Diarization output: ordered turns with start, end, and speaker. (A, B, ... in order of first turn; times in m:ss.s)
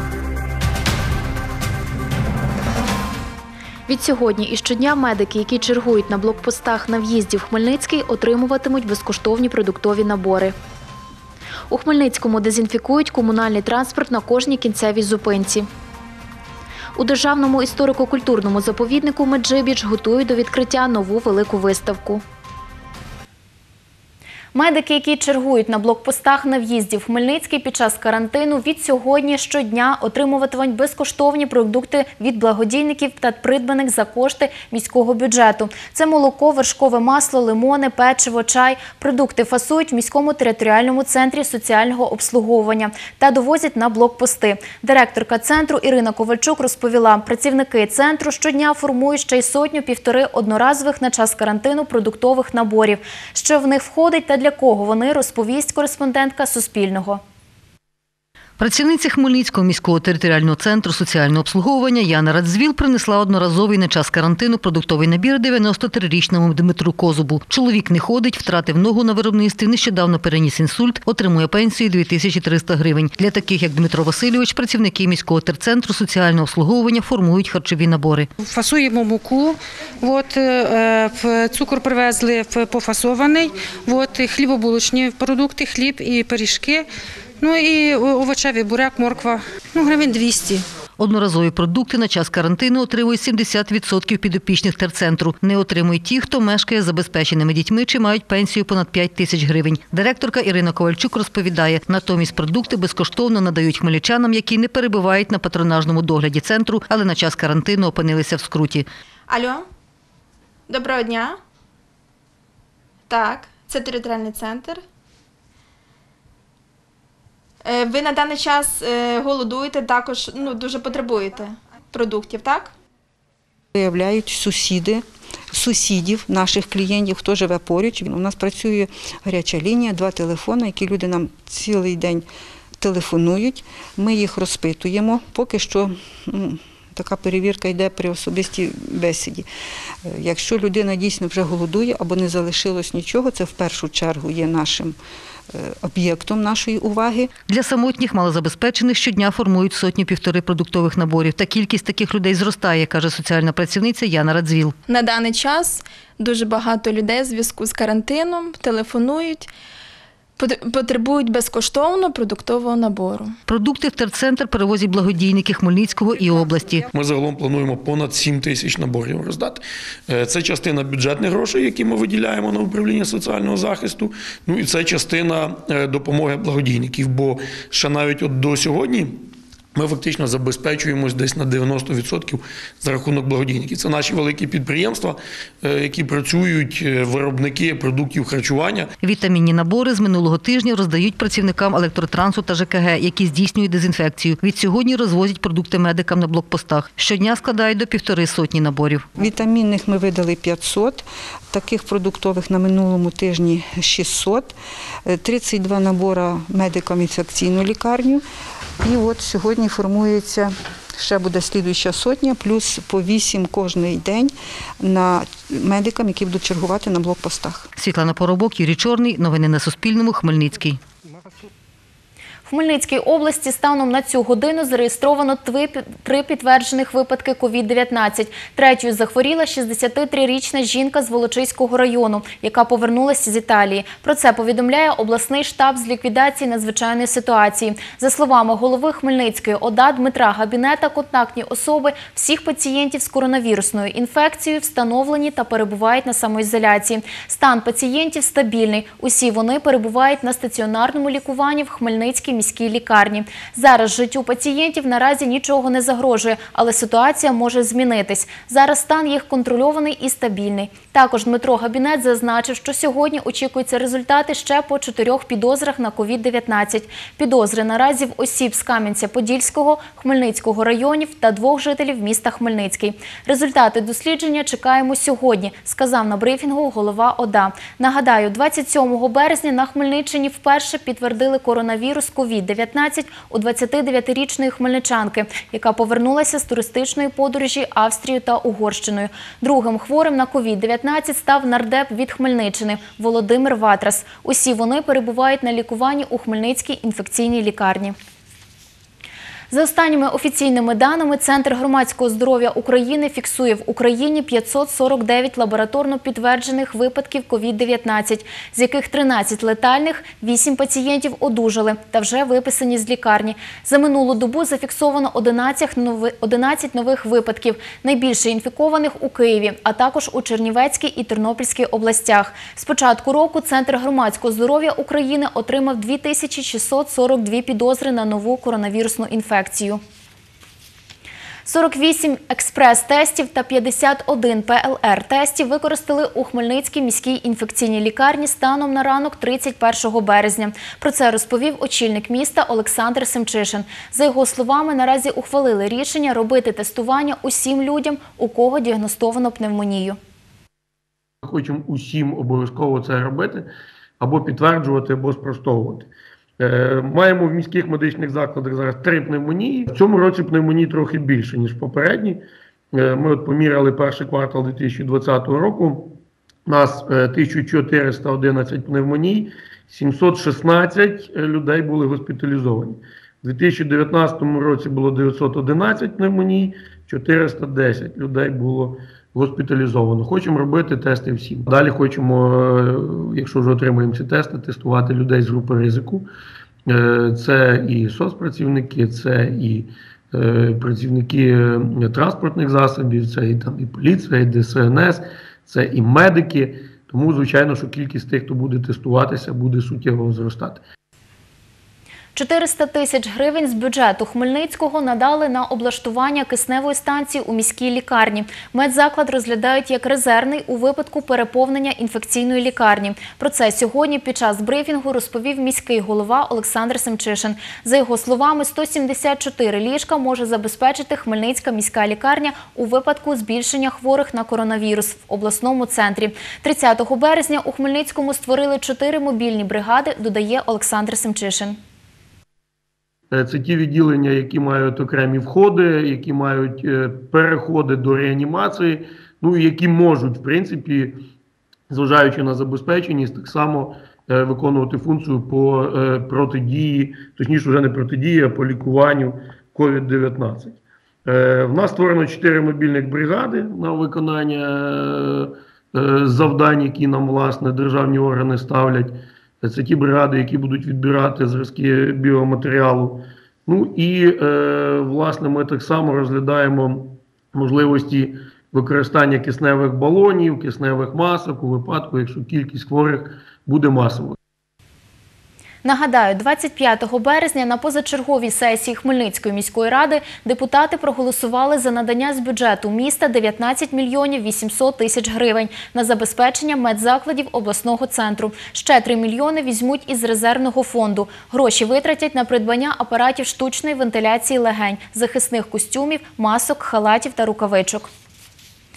0:03.9-0:10.5 A
0:11.7-0:15.7 A
0:16.9-0:22.2 A
0:24.5-0:57.2 A
0:58.6-1:18.3 B
1:18.4-1:26.8 C
1:27.4-1:30.6 C
1:31.0-1:48.8 B
1:49.3-1:49.6 D
1:50.7-1:51.4 D
1:53.1-1:54.8 D
1:57.6-2:02.7 D
2:03.7-2:12.2 E
2:12.8-2:19.4 E
2:20.1-2:25.0 E
2:25.5-2:27.3 E
2:27.5-2:34.7 B
2:34.9-2:39.5 D
2:40.4-2:43.3 D
2:43.5-2:46.8 B
2:46.9-3:08.9 F
3:09.0-3:19.0 B
3:19.2-3:24.5 E
3:25.1-3:28.2 E
3:28.8-3:37.7 E
3:37.8-3:40.8 B
3:42.4-4:57.9 A
4:59.5-5:29.8 A
5:31.4-5:50.0 A
5:51.2-5:53.5 F
5:54.0-6:26.1 F
6:26.7-6:40.6 F
6:42.1-7:11.6 A
7:13.1-7:21.0 F
7:21.7-7:54.2 F
7:55.6-8:17.9 A